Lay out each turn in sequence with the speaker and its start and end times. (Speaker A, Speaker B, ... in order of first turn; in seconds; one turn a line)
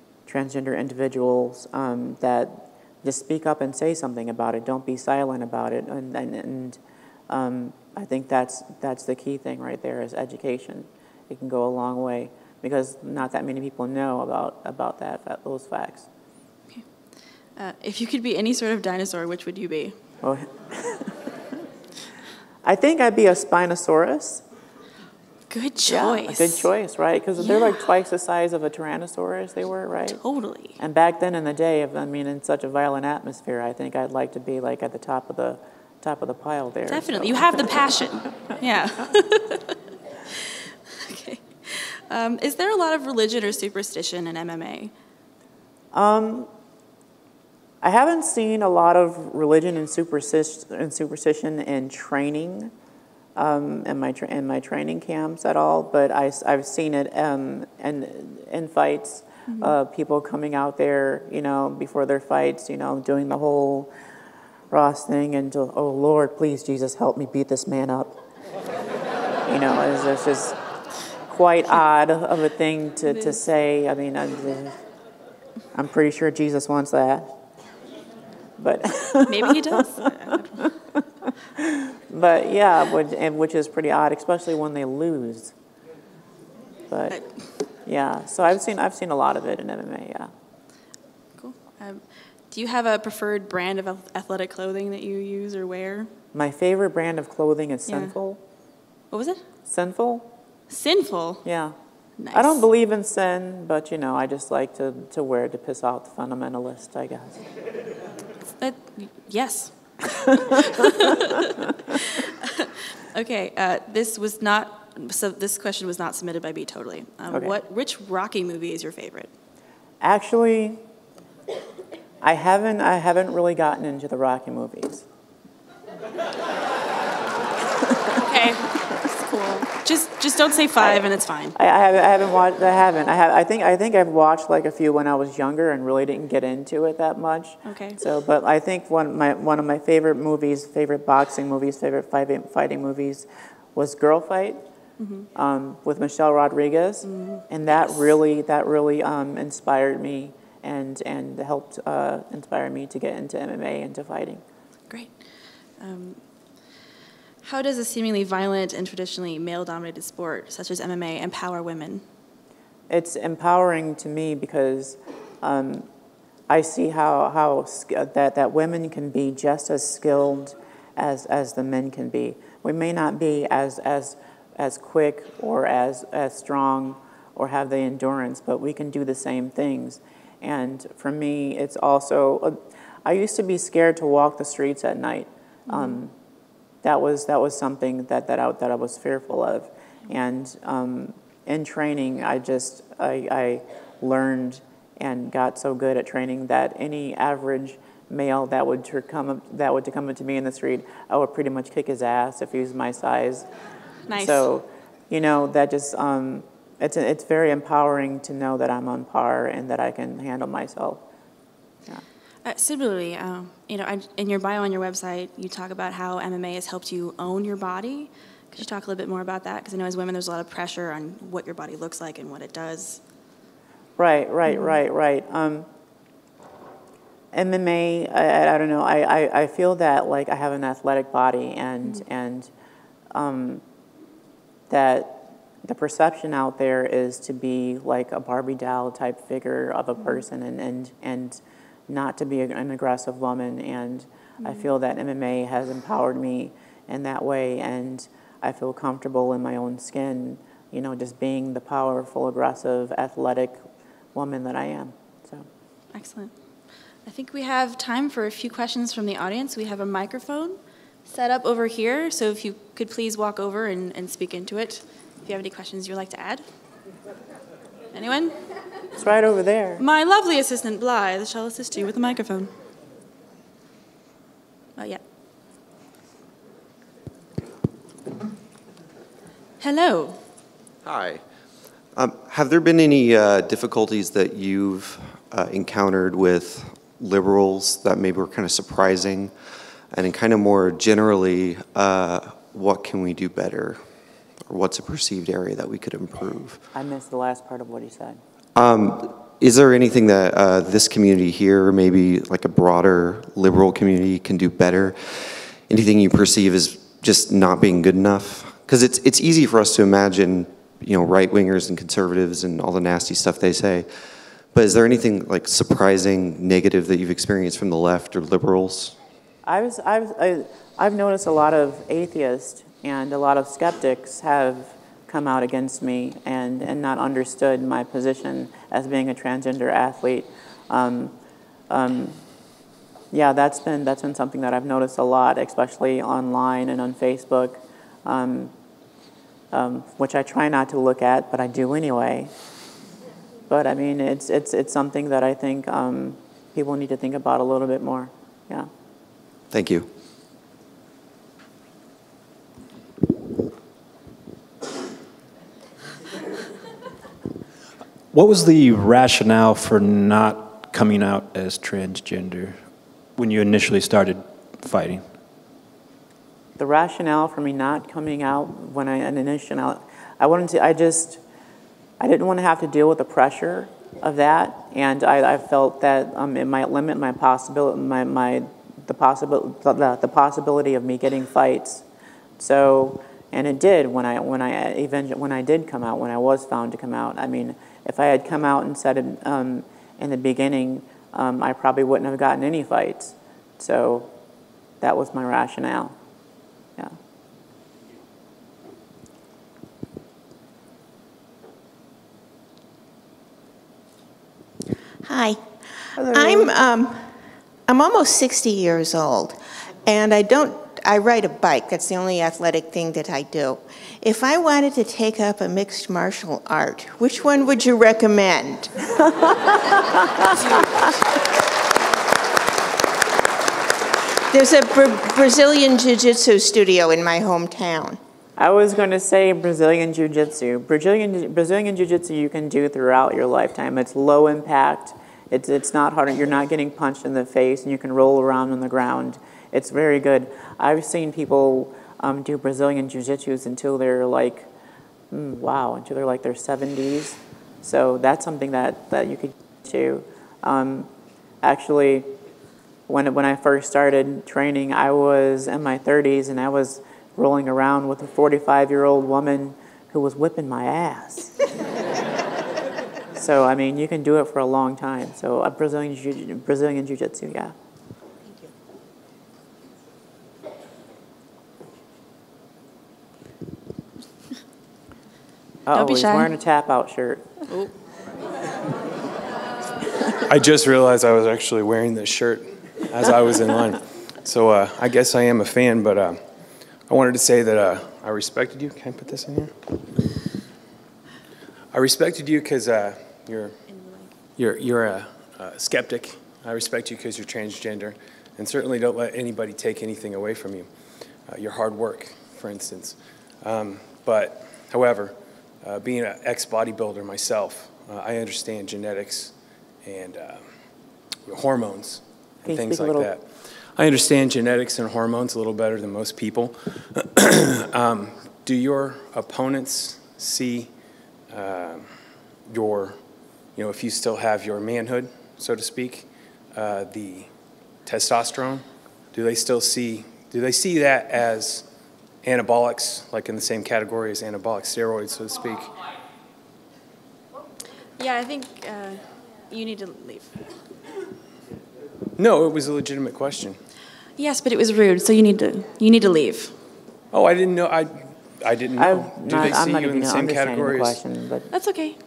Speaker A: 0.3-16.1
Speaker B: 17.6-19.9
Speaker A: 20.2-21.2
Speaker A: 22.6-24.4
Speaker B: 25.5-26.7
Speaker A: 25.9-30.2
Speaker B: 27.4-27.8
Speaker B: 30.1-30.8
Speaker A: 30.8-37.9
Speaker B: 36.9-39.8
Speaker B: 40.4-44.9
Speaker A: 45.9-46.5
Speaker A: 47.8-52.7
Speaker A: 53.4-63.9
Speaker B: 59.5-59.8
Speaker A: 64.7-68.2
Speaker A: 69.5-70.6
Speaker A: 71.3-74.8
Speaker B: 73.1-73.4
Speaker A: 75.7-77.3
Speaker A: 78.6-80.7
Speaker B: 79.3-80.7
Speaker A: 81.6-85.5
Speaker A: 86.9-87.2
Speaker A: 87.8-90.3
Speaker B: 91.4-96.1
Speaker A: 96.3-98.4
Speaker B: 97.9-98.2
Speaker B: 99.1-99.4
Speaker A: 99.7-100.3
Speaker B: 100.7-101.5
Speaker A: 101.4-101.8
Speaker B: 102.2-102.7
Speaker A: 102.3-107.4
Speaker B: 108.6-119.3
Speaker A: 117.3-117.6
Speaker A: 120.0-120.8
Speaker A: 122.2-125.0
Speaker B: 128.1-131.6
Speaker A: 130.8-144.6
Speaker B: 137.7-138.0
Speaker B: 145.0-145.3
Speaker A: 145.3-154.4
Speaker B: 147.0-148.1
Speaker B: 154.9-155.2
Speaker B: 155.8-156.2
Speaker B: 157.4-162.0
Speaker A: 162.9-165.9
Speaker A: 166.5-186.1
Speaker B: 185.7-186.0
Speaker A: 186.8-203.5
Speaker B: 204.1-204.5
Speaker A: 204.1-211.0
Speaker B: 212.4-223.0
Speaker A: 224.0-225.7
Speaker B: 224.5-224.8
Speaker A: 227.3-232.5
Speaker A: 233.1-233.6
Speaker A: 234.7-253.6
Speaker B: 244.4-244.7
Speaker A: 254.1-255.5
Speaker B: 255.9-256.3
Speaker B: 257.1-266.4
Speaker B: 267.9-268.4
Speaker A: 269.0-269.8
Speaker B: 269.8-272.5
Speaker B: 279.6-280.2
Speaker C: 281.9-289.3
Speaker C: 289.9-293.9
Speaker C: 294.5-296.6
Speaker A: 296.7-298.2
Speaker C: 298.6-313.9
Speaker C: 314.5-319.0
Speaker A: 319.4-331.1
Speaker A: 331.7-332.2
Speaker A: 333.1-338.5
Speaker A: 339.5-342.3
Speaker A: 343.5-348.7
Speaker C: 349.5-349.9
Speaker D: 358.1-362.6
Speaker D: 363.2-365.1
Speaker A: 366.6-371.2
Speaker A: 372.0-381.9
Speaker A: 382.4-394.1
Speaker A: 394.8-396.0
Speaker E: 405.0-405.4
Speaker A: 406.0-406.6
Speaker E: 406.1-407.1
Speaker E: 407.7-418.7
Speaker A: 420.0-420.5
Speaker B: 420.4-420.7
Speaker E: 424.3-428.0
Speaker A: 428.4-444.5
Speaker A: 445.1-450.9
Speaker A: 451.4-452.1
Speaker A: 452.9-461.4
Speaker A: 463.1-467.6
Speaker A: 475.7-477.4
Speaker B: 475.7-476.3
Speaker F: 480.3-486.2
Speaker F: 486.9-489.8
Speaker F: 491.7-493.6
Speaker B: 493.7-494.1
Speaker F: 494.4-500.7
Speaker F: 501.3-510.4
Speaker F: 511.3-520.7
Speaker A: 512.5-513.1
Speaker F: 521.3-521.9
Speaker F: 522.5-523.0
Speaker F: 523.6-527.3
Speaker F: 527.9-531.6
Speaker F: 532.2-535.8
Speaker B: 538.0-540.4
Speaker F: 542.2-543.6
Speaker B: 544.2-546.5
Speaker F: 547.1-551.0
Speaker A: 548.8-551.5
Speaker B: 551.5-552.0